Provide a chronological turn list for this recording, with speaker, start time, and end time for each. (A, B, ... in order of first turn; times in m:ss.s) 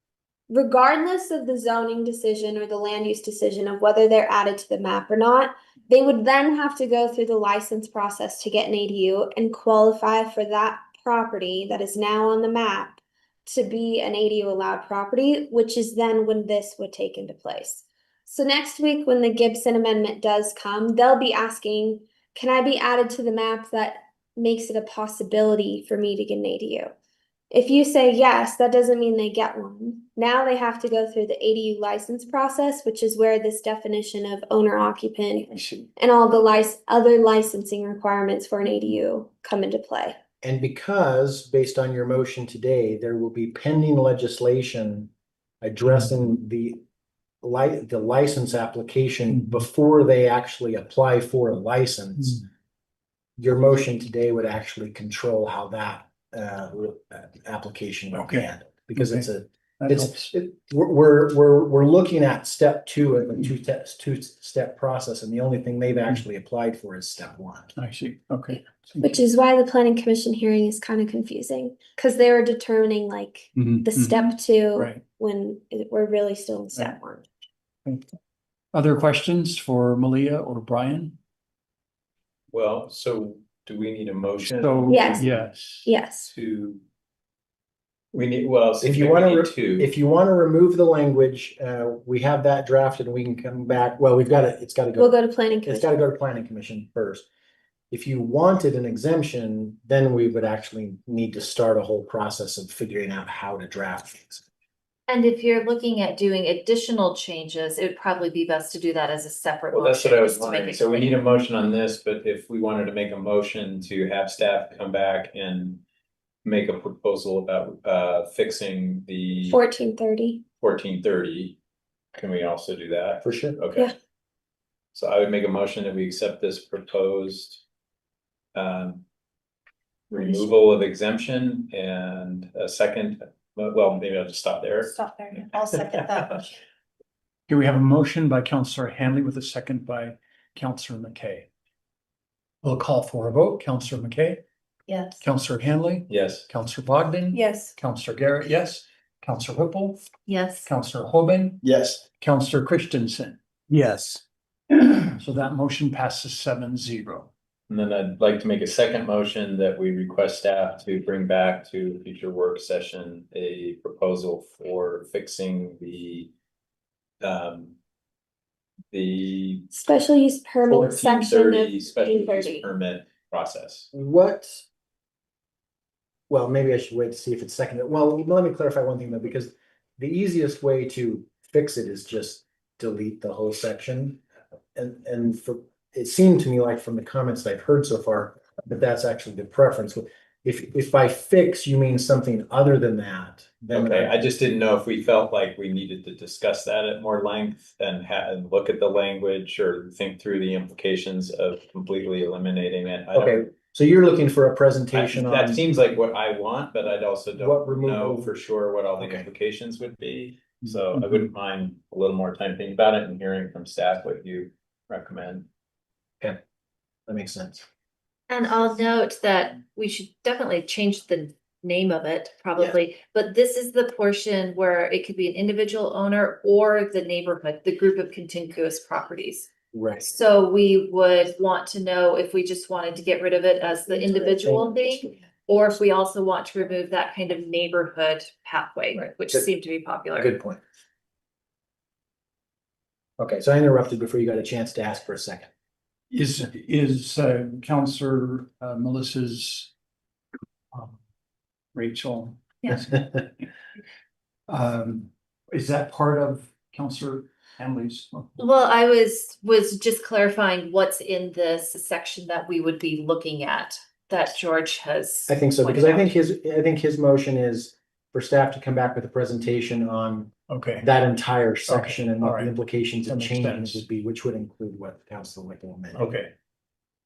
0:00.5-0:26.9 A
0:27.5-0:40.2 A
0:40.4-0:45.1 B
0:45.6-0:46.8 B
0:47.4-0:52.4 B
0:49.3-0:49.6 C
0:53.4-1:07.7 B
0:58.1-0:59.3 C
0:59.8-1:00.3 C
1:07.8-1:09.2 C
1:09.0-1:17.2 A
1:13.6-1:15.0 C
1:18.7-1:21.2 C
1:22.5-1:25.4 D
1:24.6-1:25.9 C
1:24.9-1:25.3 A
1:25.8-1:26.3 A
1:26.2-1:26.8 D
1:28.1-1:29.9 D
1:28.8-1:37.2 B
1:35.0-1:35.9 A
1:37.9-1:44.4 B
1:45.1-1:51.2 E
1:49.7-1:55.8 D
1:56.4-1:59.6 D
1:59.4-2:00.4 A
2:00.6-2:01.6 D
2:02.2-2:03.9 D
2:03.2-2:03.6 B
2:04.9-2:07.6 D
2:08.5-2:09.0 D
2:10.1-2:16.5 D
2:14.8-2:16.6 F
2:17.5-2:21.5 C
2:22.6-2:24.4 C
2:24.9-2:25.2 F
2:25.2-2:30.0 C
2:26.1-2:26.4 D
2:27.3-2:27.7 F
2:30.3-2:30.7 E
2:30.6-2:37.3 C
2:31.6-2:32.0 D
2:37.7-2:46.3 D
2:47.2-2:47.8 D
2:48.9-2:49.7 D
2:49.7-2:52.7 A
2:50.6-2:53.9 D
2:53.9-2:54.6 B
2:56.3-3:04.2 B
3:04.8-3:14.2 B
3:13.7-3:23.4 D
3:23.1-3:25.6 B
3:24.9-3:35.5 D
3:27.4-3:28.3 B
3:29.0-3:29.2 B
3:37.1-3:37.6 B
3:38.3-3:49.5 E
3:49.7-3:50.1 B
3:50.0-4:00.3 E
3:54.2-3:55.1 B
4:00.2-4:00.6 B
4:03.2-4:05.5 B
4:06.1-4:09.7 C
4:10.7-4:11.0 C
4:11.7-4:13.2 C
4:14.5-4:18.3 C
4:18.4-4:26.1 E
4:25.3-4:36.1 B
4:30.5-4:30.9 C
4:31.7-4:32.5 C
4:33.0-4:33.8 C
4:36.0-4:36.3 C